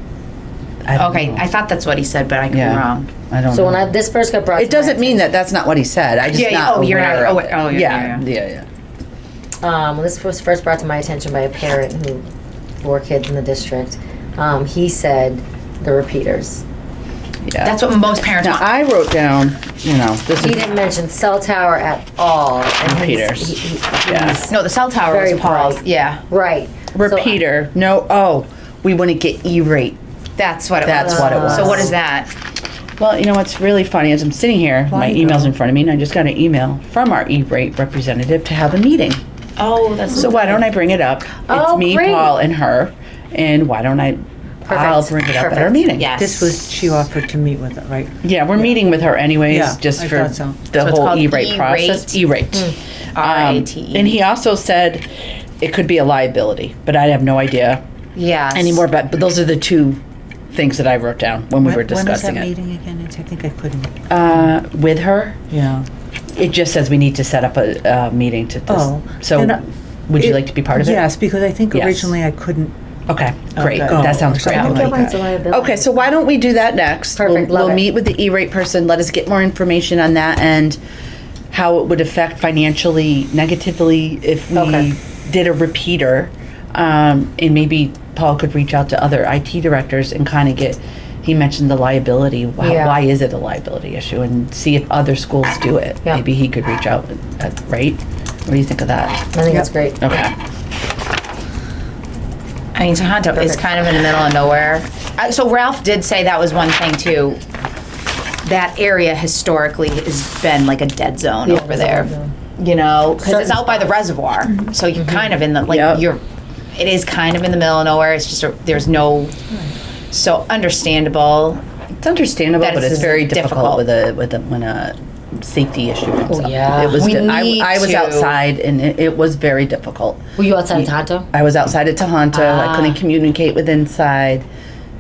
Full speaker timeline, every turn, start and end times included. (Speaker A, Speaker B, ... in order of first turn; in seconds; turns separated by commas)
Speaker A: 0.8-1.4, Speaker B: 0.9-3.1, Speaker A: 2.5-4.0, Speaker C: 3.5-5.3, Speaker A: 4.5-8.7, Speaker B: 6.3-8.2, Speaker C: 9.6-12.3, Speaker C: 12.8-16.6, Speaker A: 17.4-17.8, Speaker B: 17.6-18.7, Speaker A: 18.4-20.7, Speaker C: 20.4-24.5, Speaker A: 22.8-24.4, Speaker B: 24.5-26.2, Speaker C: 25.1-27.4, Speaker A: 26.9-30.0, Speaker B: 30.4-32.3, Speaker A: 30.8-32.0, Speaker C: 31.1-31.9, Speaker A: 33.0-39.2, Speaker D: 34.9-35.5, Speaker B: 39.6-40.6, Speaker A: 40.1-46.2, Speaker C: 41.5-42.3, Speaker C: 44.6-45.8, Speaker B: 46.0-46.5, Speaker D: 46.0-48.7, Speaker A: 48.2-55.1, Speaker D: 49.5-50.6, Speaker B: 50.8-52.2, Speaker B: 53.1-54.1, Speaker A: 55.6-57.8, Speaker B: 58.1-58.9, Speaker A: 58.5-60.0, Speaker A: 60.5-62.5, Speaker D: 61.6-64.5, Speaker A: 64.1-65.4, Speaker D: 65.5-65.9, Speaker A: 66.3-71.2, Speaker D: 68.7-72.8, Speaker A: 71.7-72.2, Speaker A: 73.1-80.8, Speaker D: 73.5-75.3, Speaker C: 74.2-75.9, Speaker C: 77.2-77.8, Speaker A: 81.5-99.3, Speaker C: 84.5-84.9, Speaker C: 92.6-93.0, Speaker C: 99.3-100.0, Speaker A: 100.0-100.3, Speaker B: 102.7-107.4, Speaker B: 108.4-116.2, Speaker C: 111.5-112.3, Speaker C: 113.2-113.8, Speaker A: 115.7-116.0, Speaker B: 116.7-119.4, Speaker D: 119.5-119.8, Speaker B: 120.1-121.6, Speaker A: 122.0-134.5, Speaker B: 122.6-123.8, Speaker C: 126.3-127.0, Speaker B: 126.9-128.4, Speaker C: 130.4-131.3, Speaker C: 132.3-133.0